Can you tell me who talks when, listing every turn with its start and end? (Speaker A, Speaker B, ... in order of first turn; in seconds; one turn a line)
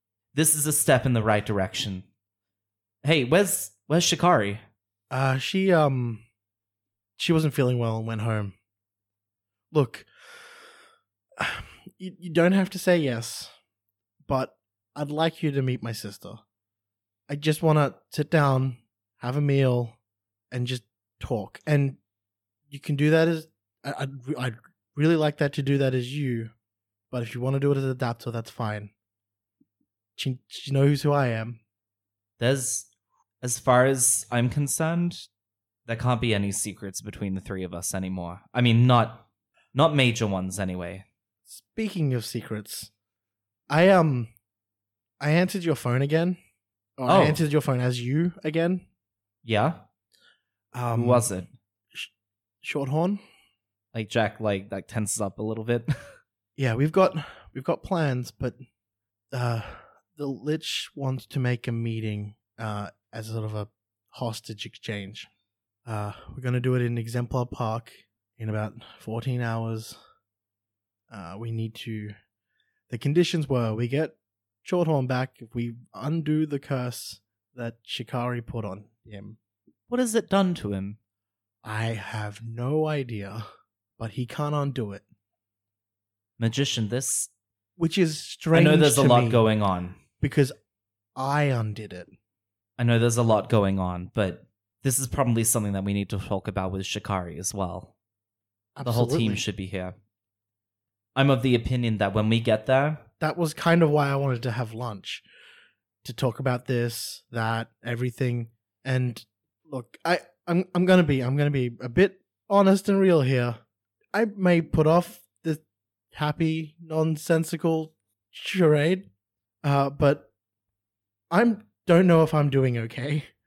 Speaker A: 0.3-2.0
Speaker A: 3.0-4.6
Speaker B: 5.1-6.2
Speaker B: 7.2-8.5
Speaker B: 9.7-10.1
Speaker B: 11.4-13.5
Speaker B: 14.2-16.4
Speaker B: 17.3-20.0
Speaker B: 20.5-22.0
Speaker B: 22.7-26.5
Speaker B: 27.1-28.9
Speaker B: 30.2-31.6
Speaker A: 32.4-32.9
Speaker A: 33.4-35.3
Speaker A: 35.9-41.0
Speaker B: 41.5-42.9
Speaker B: 43.7-44.3
Speaker B: 45.2-46.4
Speaker B: 47.0-48.8
Speaker A: 47.0-47.4
Speaker A: 49.4-49.8
Speaker B: 50.7-51.3
Speaker A: 50.9-51.5
Speaker B: 52.6-53.2
Speaker A: 53.9-56.1
Speaker B: 56.6-58.6
Speaker B: 59.3-65.3
Speaker B: 65.8-70.0
Speaker B: 71.1-72.1
Speaker B: 72.9-79.4
Speaker A: 79.9-81.0
Speaker B: 81.6-83.4
Speaker B: 84.0-85.0
Speaker A: 86.4-87.3
Speaker B: 87.8-89.4
Speaker A: 88.5-90.0
Speaker B: 90.2-90.5
Speaker B: 91.2-92.1
Speaker A: 92.8-97.9
Speaker B: 98.8-99.4
Speaker A: 98.8-99.9
Speaker A: 101.1-103.0
Speaker B: 103.2-105.2
Speaker B: 106.0-113.6
Speaker B: 114.1-115.6
Speaker B: 116.1-119.1
Speaker B: 119.6-120.3
Speaker B: 121.3-123.3